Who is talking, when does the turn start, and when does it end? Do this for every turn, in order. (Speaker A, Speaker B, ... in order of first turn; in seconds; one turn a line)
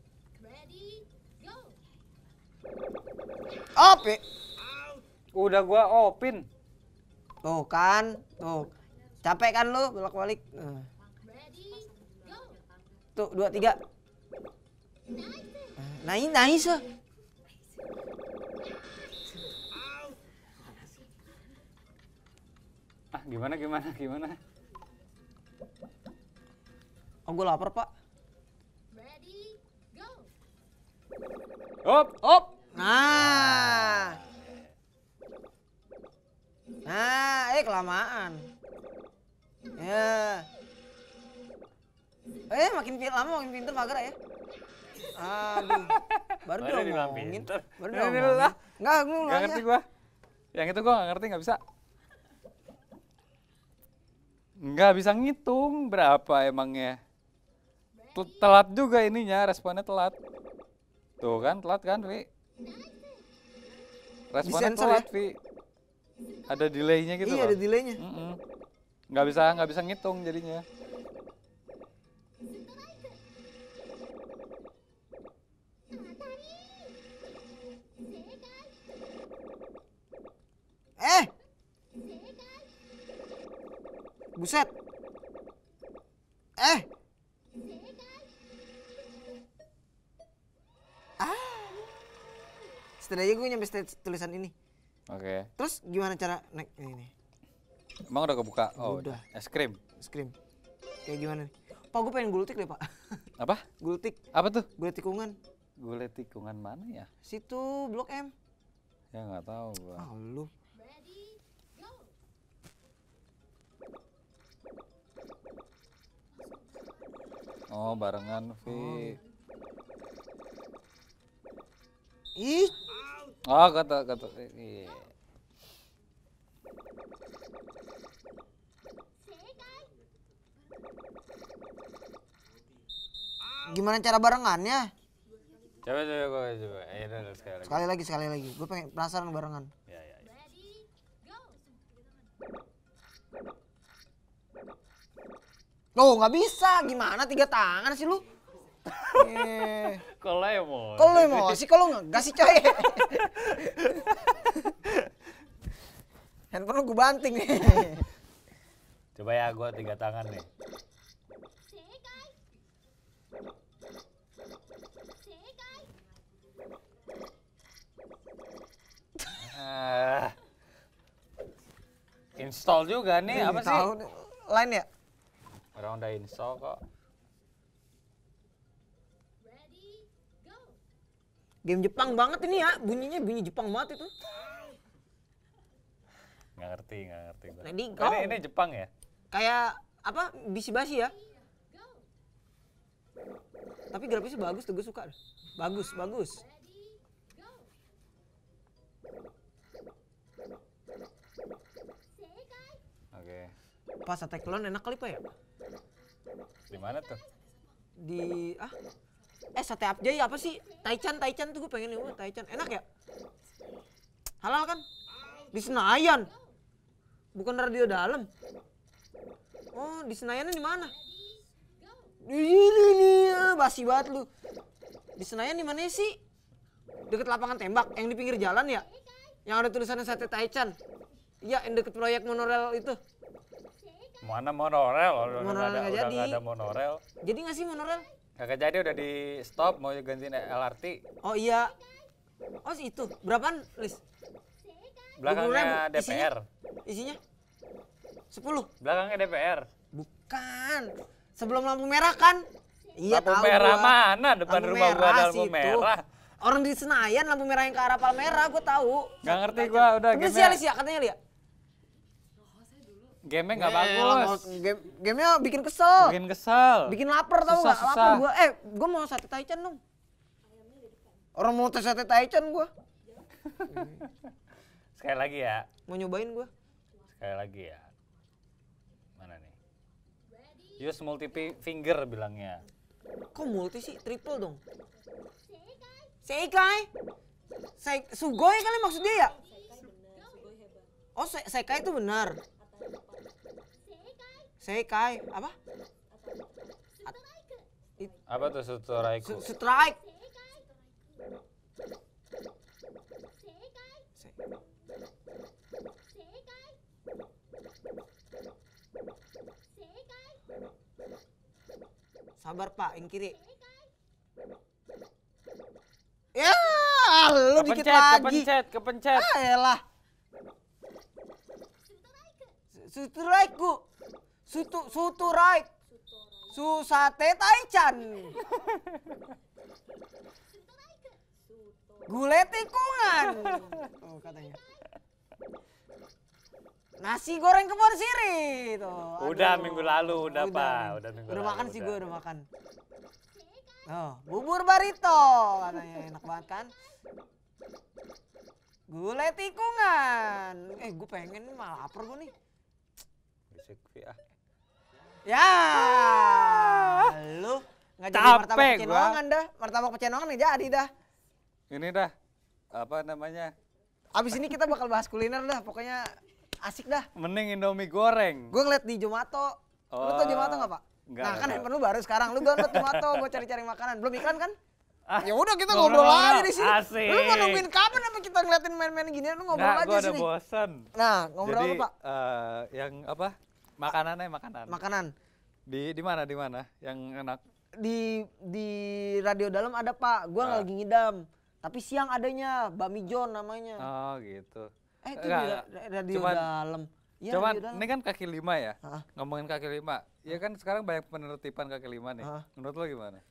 Speaker A: 0.4-1.8
Speaker B: 3.8-4.2
Speaker C: 5.3-6.5
Speaker B: 7.4-8.7
Speaker B: 9.2-10.9
Speaker A: 11.2-12.7
Speaker B: 13.2-13.8
Speaker A: 15.1-15.7
Speaker B: 15.8-16.8
Speaker C: 23.1-24.4
Speaker B: 27.3-27.9
Speaker A: 28.9-30.3
Speaker C: 31.8-32.2
Speaker B: 32.2-34.2
Speaker C: 33.1-34.7
Speaker B: 36.9-38.4
Speaker B: 39.8-40.5
Speaker B: 42.5-44.2
Speaker B: 45.1-49.6
Speaker C: 45.7-48.6
Speaker C: 49.2-49.8
Speaker C: 50.5-51.6
Speaker C: 54.6-57.0
Speaker A: 58.0-58.5
Speaker C: 58.1-60.2
Speaker C: 61.2-62.3
Speaker A: 62.6-63.3
Speaker C: 64.3-65.4
Speaker B: 64.4-65.1
Speaker C: 66.5-68.4
Speaker B: 67.2-68.0
Speaker C: 69.1-70.6
Speaker A: 72.5-73.2
Speaker A: 75.9-77.0
Speaker A: 78.0-78.9
Speaker B: 81.0-81.3
Speaker A: 81.9-82.7
Speaker B: 84.4-84.7
Speaker B: 86.6-86.9
Speaker A: 87.5-88.3
Speaker B: 91.2-92.0
Speaker B: 93.0-94.5
Speaker C: 95.1-95.5
Speaker B: 95.6-97.1
Speaker C: 98.1-99.8
Speaker B: 98.8-99.2
Speaker B: 100.0-100.3
Speaker B: 101.1-103.2
Speaker C: 103.4-103.7
Speaker B: 103.8-104.2
Speaker C: 104.3-104.7
Speaker B: 104.8-105.3
Speaker C: 105.8-107.1
Speaker B: 107.3-108.3
Speaker C: 109.1-110.1
Speaker B: 110.0-110.5
Speaker A: 110.7-112.2
Speaker C: 117.7-119.2
Speaker B: 118.7-119.2
Speaker B: 122.4-122.8
Speaker C: 123.5-125.1
Speaker A: 129.2-129.9
Speaker B: 133.6-134.9
Speaker C: 135.8-137.9
Speaker B: 137.6-139.7
Speaker C: 139.9-140.3
Speaker A: 140.2-141.7
Speaker B: 145.9-148.2
Speaker C: 148.9-151.7
Speaker B: 149.2-150.0
Speaker B: 151.0-154.7
Speaker C: 152.8-154.1
Speaker B: 156.5-158.1
Speaker C: 159.2-160.5
Speaker A: 161.7-162.4
Speaker A: 165.2-166.0
Speaker C: 169.4-170.4
Speaker C: 172.4-173.9
Speaker B: 173.3-174.9
Speaker C: 175.8-176.8
Speaker A: 179.4-180.8
Speaker B: 181.6-184.1
Speaker C: 186.6-188.9
Speaker B: 187.6-188.4
Speaker B: 189.3-191.1
Speaker A: 191.1-192.1
Speaker B: 193.9-196.4
Speaker A: 196.2-197.8
Speaker A: 202.2-202.8
Speaker C: 203.1-203.5
Speaker B: 204.1-205.2
Speaker C: 206.7-207.2
Speaker B: 208.0-208.8
Speaker B: 209.6-212.9
Speaker B: 214.4-214.8
Speaker B: 215.5-216.3
Speaker B: 217.3-218.3
Speaker B: 219.7-220.9
Speaker A: 220.8-222.2
Speaker B: 222.2-224.3
Speaker B: 225.2-226.2
Speaker B: 227.1-228.9
Speaker A: 228.9-229.4
Speaker B: 229.5-230.8
Speaker B: 231.4-233.0
Speaker A: 233.8-234.2
Speaker C: 234.2-237.0
Speaker B: 235.3-236.4
Speaker B: 237.2-238.1
Speaker C: 238.4-241.0
Speaker B: 241.2-241.7
Speaker B: 242.6-244.0
Speaker A: 244.6-245.2
Speaker C: 245.2-246.5
Speaker B: 245.2-246.3
Speaker B: 246.9-247.2
Speaker B: 248.3-248.7
Speaker C: 248.8-249.7
Speaker B: 249.9-261.2
Speaker C: 253.1-256.0
Speaker C: 259.2-260.6
Speaker C: 263.2-264.6
Speaker B: 263.5-266.2
Speaker C: 266.0-268.2
Speaker B: 266.9-269.8
Speaker B: 271.4-272.7
Speaker C: 273.4-274.3
Speaker B: 273.7-274.0
Speaker C: 275.0-275.7
Speaker B: 275.9-276.5
Speaker C: 277.2-277.9
Speaker C: 279.2-279.6
Speaker A: 280.3-280.9
Speaker C: 280.8-282.6
Speaker B: 283.3-284.6
Speaker A: 285.4-286.1
Speaker B: 286.2-286.9
Speaker B: 287.8-289.4
Speaker A: 289.4-290.9
Speaker B: 291.2-292.4
Speaker A: 293.8-294.5
Speaker B: 294.6-295.6
Speaker A: 297.0-297.7
Speaker C: 298.3-299.5
Speaker B: 299.2-300.0
Speaker A: 300.0-300.9
Speaker A: 303.4-304.1
Speaker A: 306.1-306.8
Speaker A: 309.7-310.4
Speaker B: 312.4-313.4
Speaker A: 313.3-313.9
Speaker B: 316.3-318.5
Speaker C: 317.6-319.3
Speaker B: 319.1-319.8
Speaker A: 321.8-322.6
Speaker B: 322.7-323.8
Speaker B: 324.5-325.7
Speaker B: 326.5-328.4
Speaker A: 330.5-331.4
Speaker B: 332.1-334.6
Speaker C: 333.3-333.5
Speaker B: 337.0-342.5
Speaker C: 339.2-342.0
Speaker A: 343.3-343.8
Speaker B: 343.9-346.7
Speaker B: 348.9-352.3
Speaker C: 353.5-354.2
Speaker B: 355.3-360.9
Speaker C: 356.0-357.1
Speaker C: 358.1-359.2
Speaker C: 361.7-362.1
Speaker C: 362.7-363.5
Speaker B: 364.1-367.1
Speaker C: 367.1-368.6
Speaker B: 368.5-374.6
Speaker C: 369.9-371.7
Speaker C: 372.3-373.4
Speaker C: 375.1-377.7
Speaker B: 375.2-380.3
Speaker C: 379.5-380.9
Speaker B: 380.9-381.9
Speaker C: 381.4-384.8
Speaker B: 384.7-385.1
Speaker C: 385.7-387.4
Speaker B: 387.8-393.9
Speaker C: 390.4-390.7
Speaker C: 393.8-396.5
Speaker B: 395.0-397.9
Speaker C: 397.3-403.2